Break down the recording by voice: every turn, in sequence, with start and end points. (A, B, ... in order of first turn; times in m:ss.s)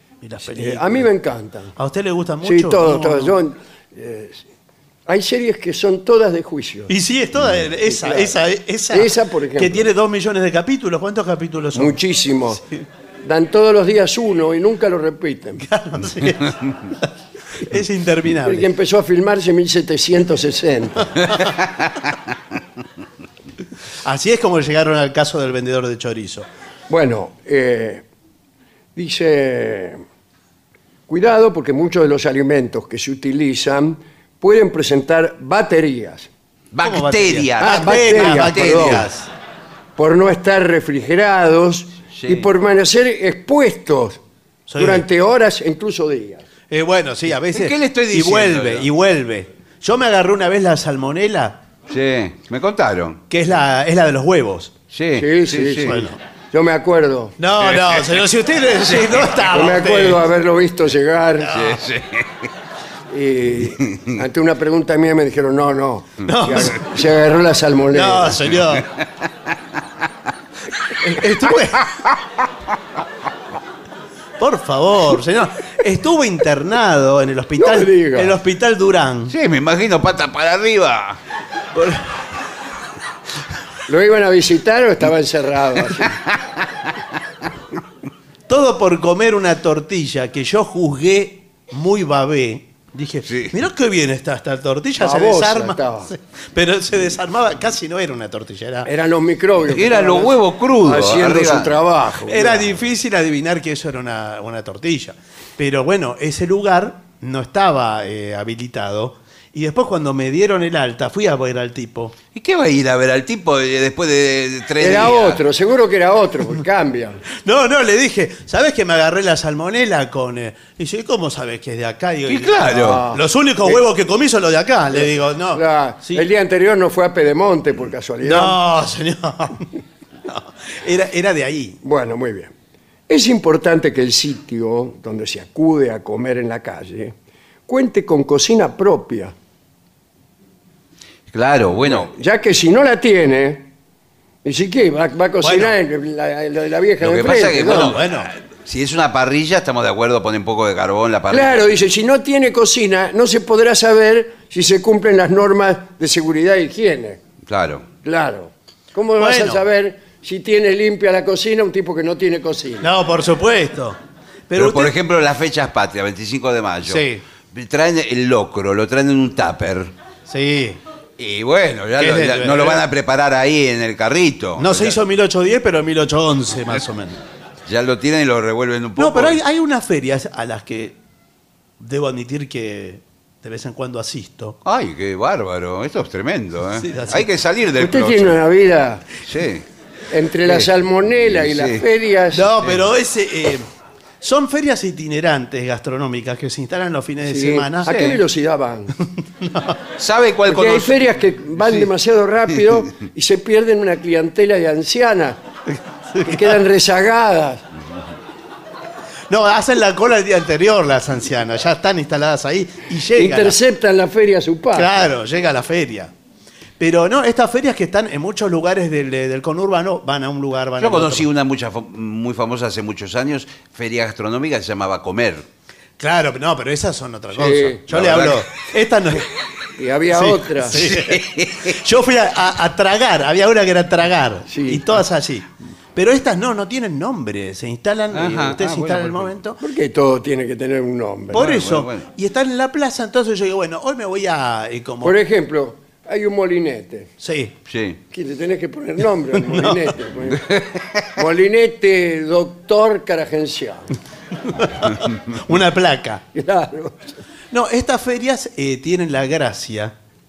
0:00.2-0:01.1 A
0:00.5-0:01.8 B
0:01.8-0:03.4 A
0:02.4-0:04.4 B
0:05.1-0:06.9 B
0:06.9-0:12.0 A
0:07.8-0:08.4 B
0:08.9-0:09.9 B
0:11.7-0:12.6 B
0:13.2-0:15.6 B
0:15.6-0:18.7 A
0:18.4-0:21.2 B
0:24.0-0:26.5 A
0:26.9-0:28.0 B
0:29.0-0:30.0 B
0:31.1-0:36.3 B
0:36.7-0:39.1 C
0:36.8-0:39.3 A
0:37.6-0:39.1 B
0:40.0-0:44.2 B
0:42.2-0:42.5 C
0:44.7-0:45.1 A
0:44.8-0:46.5 B
0:46.7-0:51.6 A
0:47.5-0:48.9 C
0:51.9-0:53.2 C
0:53.3-0:54.7 A
0:54.9-0:56.0 C
0:55.1-0:57.4 B
0:55.9-0:56.2 A
0:57.4-1:00.2 A
0:57.7-0:58.1 C
0:58.9-0:59.3 C
0:59.5-1:01.7 B
1:01.5-1:02.5 C
1:03.1-1:08.4 B
1:06.2-1:06.9 A
1:07.9-1:08.9 A
1:11.0-1:11.9 A
1:14.4-1:19.3 A
1:17.6-1:18.4 B
1:19.3-1:21.2 C
1:23.9-1:26.2 B
1:28.5-1:38.9 A
1:33.3-1:33.5 C
1:35.0-1:36.1 B
1:38.8-1:42.8 B
1:39.7-1:41.8 C
1:42.3-1:52.2 A
1:52.3-1:55.4 C
1:54.8-1:57.2 B
1:57.4-2:06.3 A
2:02.3-2:03.0 C
2:02.7-2:03.8 B
2:04.9-2:08.6 B
2:08.2-2:09.7 A
2:10.3-2:11.8 A
2:11.8-2:12.5 B
2:13.1-2:17.1 B
2:17.7-2:19.3 B
2:21.3-2:22.1 C
2:21.8-2:23.7 B
2:24.4-2:28.0 B
2:25.4-2:25.8 A
2:27.0-2:31.8 C
2:27.7-2:28.3 A
2:31.3-2:37.2 B
2:37.5-2:37.9 C
2:38.0-2:42.9 B
2:39.2-2:39.6 A
2:42.8-2:44.0 A
2:44.5-2:44.9 A
2:44.6-2:49.9 C
2:46.9-2:47.2 A
2:50.3-2:50.8 A
2:51.2-2:55.0 C
2:52.0-2:52.8 A
2:54.6-2:57.2 A
2:57.7-2:59.4 C
2:59.0-3:01.0 A
3:01.8-3:04.6 A
3:04.6-3:08.4 C
3:06.8-3:07.2 A
3:07.8-3:09.1 B
3:09.2-3:09.6 C
3:10.1-3:12.5 B
3:11.4-3:11.8 C
3:12.3-3:13.6 A
3:14.2-3:17.9 A
3:17.2-3:18.9 B
3:17.9-3:18.2 C
3:19.1-3:19.8 A
3:20.0-3:21.0 C
3:20.5-3:25.4 B
3:25.7-3:26.6 A
3:26.2-3:27.6 B
3:29.3-3:33.6 A
3:33.1-3:34.9 B
3:34.7-3:36.1 A
3:36.8-3:41.3 A
3:40.8-3:45.4 C
3:46.0-3:49.3 A
3:47.3-3:47.8 B
3:47.9-3:48.4 C
3:49.8-3:50.9 B
3:50.1-3:59.6 A
3:50.8-3:51.8 C
3:54.5-3:55.0 B
3:58.1-3:59.4 C
3:59.6-4:01.5 B
4:01.3-4:05.2 A
4:01.4-4:02.1 C
4:05.0-4:07.1 B
4:07.2-4:07.5 A
4:07.7-4:08.0 C
4:08.1-4:10.6 B
4:09.4-4:09.8 A
4:11.2-4:13.9 B
4:14.5-4:16.2 A
4:16.3-4:17.2 B
4:17.5-4:19.9 A